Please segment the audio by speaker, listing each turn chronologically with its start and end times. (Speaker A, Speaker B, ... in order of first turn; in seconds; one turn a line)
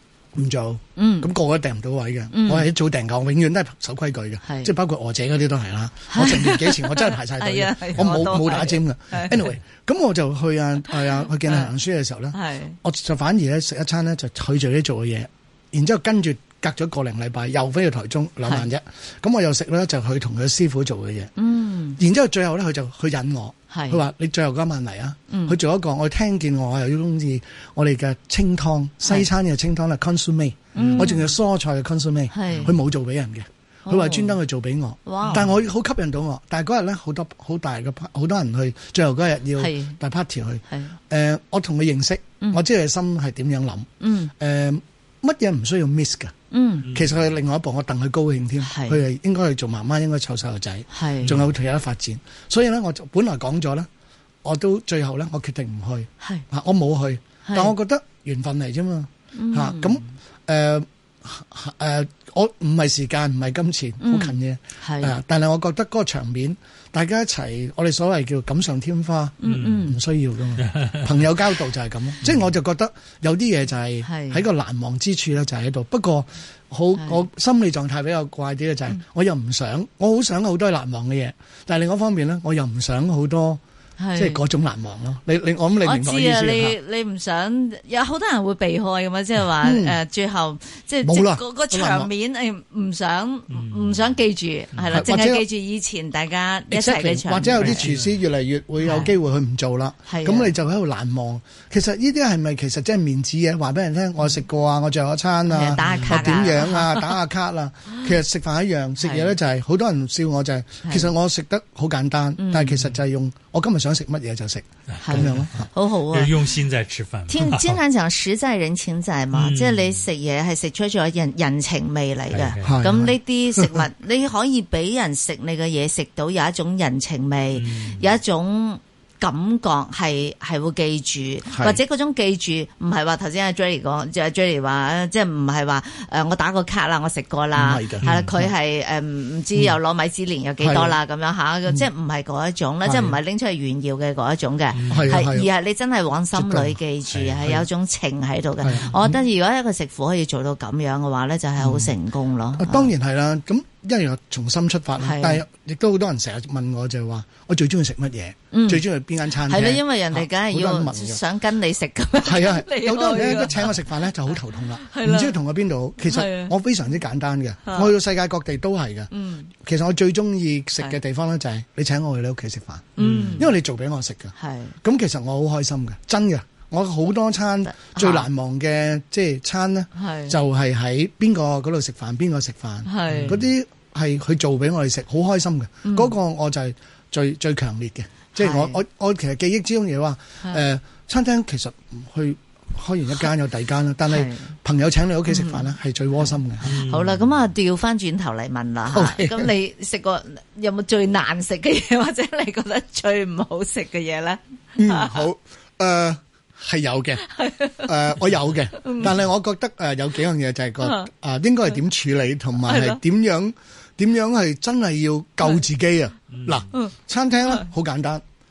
Speaker A: 0.3-21.3
Speaker B: 1.0-1.3
Speaker B: 2.3-2.7
Speaker B: 4.4-4.7
Speaker B: 6.1-9.4
Speaker B: 12.3-12.8
Speaker B: 21.4-22.0
Speaker A: 22.0-46.3
Speaker B: 23.7-24.0
Speaker B: 25.3-25.6
Speaker B: 30.7-31.3
Speaker C: 30.8-31.1
Speaker B: 32.3-32.7
Speaker B: 33.9-34.4
Speaker B: 35.0-35.5
Speaker B: 39.6-40.0
Speaker B: 40.7-40.9
Speaker B: 44.0-44.3
Speaker B: 46.5-46.9
Speaker C: 46.9-47.1
Speaker A: 46.9-53.9
Speaker B: 48.6-49.0
Speaker B: 50.9-51.3
Speaker A: 54.4-83.6
Speaker B: 57.4-57.7
Speaker B: 59.3-60.1
Speaker B: 64.0-65.1
Speaker B: 69.4-70.0
Speaker C: 69.5-69.8
Speaker C: 70.6-71.0
Speaker B: 74.0-74.4
Speaker B: 84.0-84.4
Speaker A: 84.2-86.8
Speaker B: 85.8-97.8
Speaker A: 89.6-90.0
Speaker A: 91.0-92.1
Speaker C: 93.5-94.0
Speaker A: 94.9-95.4
Speaker A: 96.7-115.7
Speaker C: 97.6-98.2
Speaker B: 98.8-99.1
Speaker B: 100.1-100.5
Speaker B: 105.5-107.2
Speaker C: 105.8-106.2
Speaker B: 109.0-109.3
Speaker B: 110.8-111.1
Speaker B: 112.4-112.8
Speaker C: 114.9-115.5
Speaker B: 115.0-116.4
Speaker C: 116.1-117.8
Speaker B: 117.3-152.9
Speaker C: 119.3-120.0
Speaker C: 122.3-122.8
Speaker A: 122.6-123.8
Speaker C: 127.5-128.0
Speaker A: 131.5-131.8
Speaker A: 137.5-138.5
Speaker C: 138.0-138.3
Speaker A: 140.6-140.9
Speaker A: 142.8-143.2
Speaker C: 144.7-145.1
Speaker A: 144.9-145.5
Speaker A: 146.3-147.6
Speaker A: 148.6-149.2
Speaker A: 151.6-151.9
Speaker A: 152.6-161.2
Speaker B: 155.0-155.4
Speaker B: 158.5-158.8
Speaker B: 159.5-163.8
Speaker A: 162.2-196.7
Speaker B: 164.8-165.3
Speaker B: 166.0-166.5
Speaker B: 167.7-167.9
Speaker B: 169.1-169.5
Speaker B: 173.0-173.5
Speaker C: 173.0-173.5
Speaker B: 174.4-174.8
Speaker B: 177.7-178.2
Speaker B: 179.9-180.3
Speaker B: 182.8-183.4
Speaker C: 183.1-183.5
Speaker B: 185.8-186.1
Speaker B: 188.4-188.8
Speaker B: 194.1-194.5
Speaker B: 195.3-195.7
Speaker C: 196.6-197.2
Speaker B: 196.7-205.2
Speaker A: 198.9-199.5
Speaker A: 204.8-207.2
Speaker B: 207.2-207.9
Speaker A: 207.8-218.2
Speaker B: 208.8-209.1
Speaker B: 210.8-211.1
Speaker B: 212.6-213.0
Speaker C: 216.3-216.7